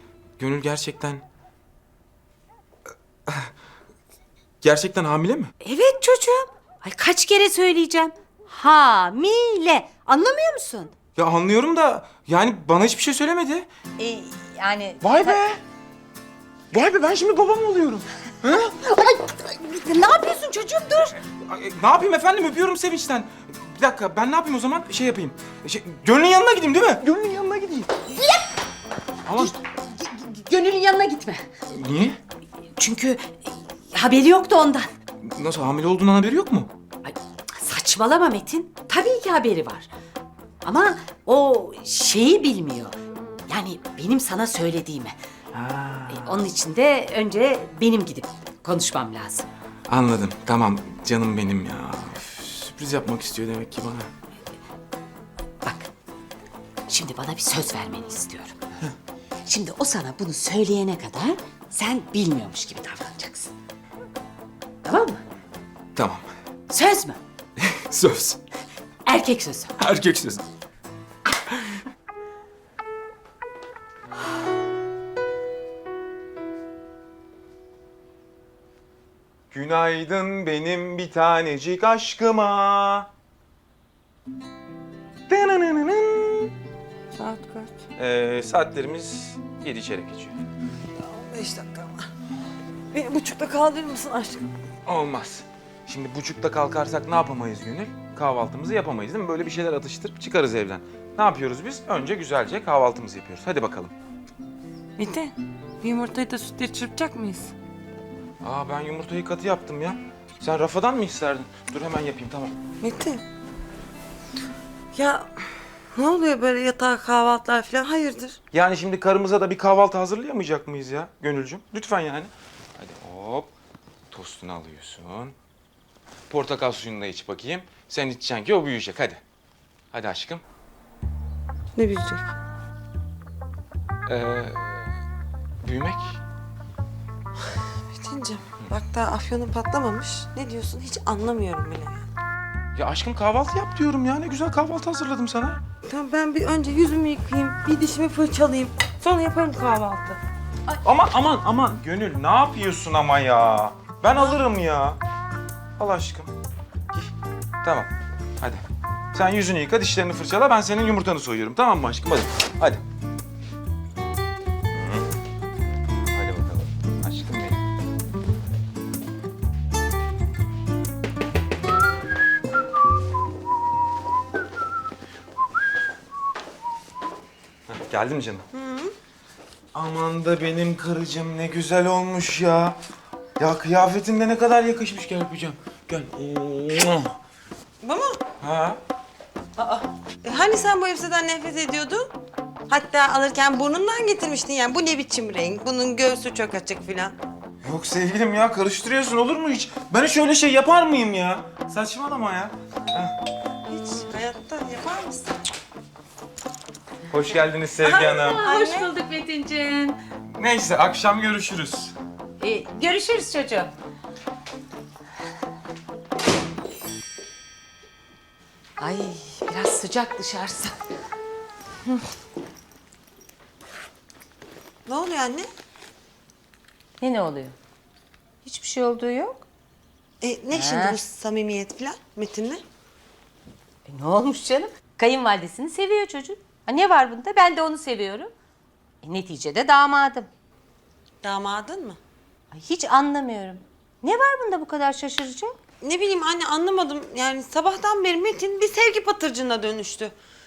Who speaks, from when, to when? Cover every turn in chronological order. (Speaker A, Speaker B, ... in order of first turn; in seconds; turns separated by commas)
Speaker A: 0.4-1.2, Speaker A: 4.6-5.5, Speaker B: 5.6-10.9, Speaker A: 11.2-13.7, Speaker B: 14.0-15.4, Speaker A: 15.0-15.6, Speaker A: 16.7-18.8, Speaker B: 18.9-21.2, Speaker A: 21.2-27.9, Speaker A: 29.2-29.6, Speaker B: 29.4-31.4, Speaker A: 31.7-32.2, Speaker B: 32.8-34.9, Speaker A: 35.2-36.7, Speaker B: 37.0-39.9, Speaker B: 40.6-43.0, Speaker B: 43.5-45.1, Speaker A: 45.5-46.3, Speaker B: 46.1-49.5, Speaker A: 49.9-54.1, Speaker B: 56.9-58.5, Speaker B: 59.5-63.5, Speaker B: 64.8-65.2, Speaker A: 65.9-66.3, Speaker B: 66.7-67.2, Speaker A: 67.6-68.4, Speaker B: 69.0-69.8, Speaker A: 69.8-70.4, Speaker A: 79.5-83.1, Speaker A: 85.3-86.5, Speaker C: 87.1-87.7, Speaker A: 88.0-90.4, Speaker C: 91.0-92.1, Speaker C: 92.9-94.5, Speaker A: 94.8-103.9, Speaker C: 105.0-107.5, Speaker A: 108.4-112.5, Speaker C: 112.8-113.2, Speaker C: 114.9-118.4, Speaker A: 118.5-123.5, Speaker A: 124.1-125.3, Speaker A: 126.3-129.2, Speaker A: 129.9-130.4, Speaker C: 131.8-132.3, Speaker A: 134.1-134.8, Speaker A: 135.6-136.2, Speaker C: 137.9-142.1, Speaker A: 142.7-145.6, Speaker C: 145.8-150.2, Speaker A: 150.8-155.0, Speaker A: 155.8-156.3, Speaker A: 157.6-162.8, Speaker A: 164.7-165.1, Speaker A: 166.1-167.6, Speaker A: 177.7-178.4, Speaker C: 178.5-178.9, Speaker A: 179.7-182.8, Speaker A: 183.4-187.1, Speaker C: 187.8-188.2, Speaker A: 188.4-188.8, Speaker C: 189.6-192.1, Speaker C: 192.7-197.1, Speaker A: 197.6-203.1, Speaker C: 203.7-205.3, Speaker A: 207.1-208.4, Speaker B: 207.8-210.0, Speaker C: 208.4-208.9, Speaker A: 210.3-211.9, Speaker B: 212.4-213.7, Speaker B: 218.8-220.7, Speaker C: 224.8-225.5, Speaker B: 227.0-227.5, Speaker B: 228.4-229.4, Speaker C: 230.2-232.6, Speaker B: 230.5-231.0, Speaker B: 233.9-238.3, Speaker B: 239.0-240.3, Speaker C: 241.2-242.0, Speaker B: 242.5-245.5, Speaker C: 245.8-250.1